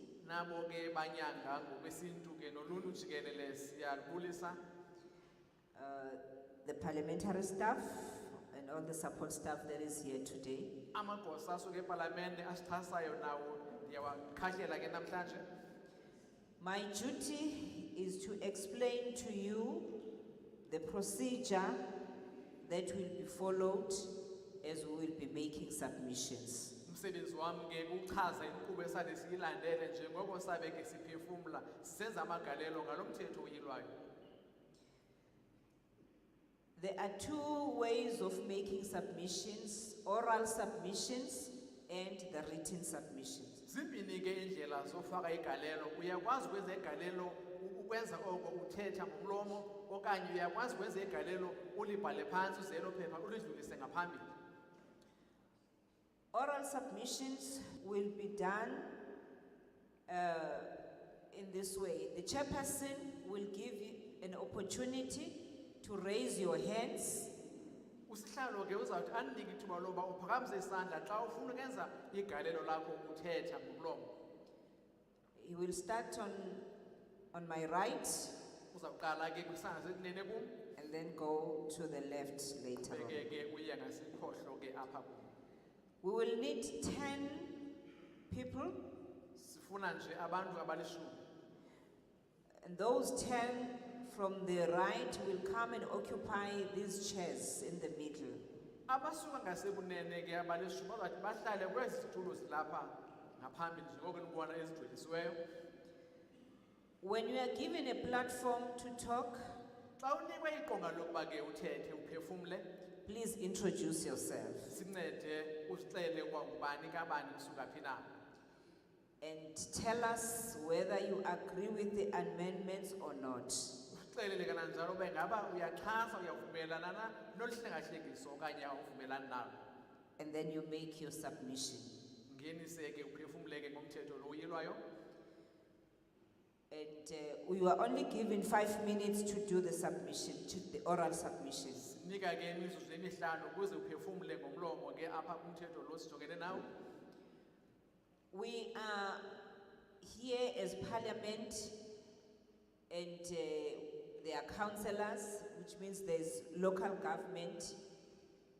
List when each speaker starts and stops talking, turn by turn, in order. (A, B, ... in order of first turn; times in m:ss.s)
0:00.2-0:04.6 A
0:05.7-0:10.7 B
0:10.9-0:15.5 A
0:16.6-0:19.9 B
0:20.6-0:21.8 B
0:22.6-0:26.7 B
0:26.9-0:33.9 A
0:36.8-0:43.6 B
0:43.7-0:54.3 A
0:56.3-0:58.9 B
1:00.1-1:00.7 B
1:01.3-1:07.3 B
1:08.1-1:14.1 A
1:15.4-1:16.6 B
1:17.3-1:18.4 B
1:18.7-1:20.5 A
1:20.8-1:23.2 B
1:22.9-1:25.3 A
1:26.0-1:27.5 B
1:28.3-1:28.8 B
1:29.4-1:31.2 A
1:32.6-1:38.4 B
1:38.9-1:45.4 A
1:47.0-1:49.6 B
1:50.0-1:52.6 A
1:53.0-1:54.7 B
1:54.7-1:58.0 A
1:59.2-2:03.8 B
2:03.9-2:09.6 A
2:10.2-2:12.0 B
2:12.3-2:14.8 A
2:16.7-2:21.9 B
2:21.8-2:26.7 A
2:28.3-2:29.2 B
2:30.0-2:31.8 B
2:32.9-2:37.8 B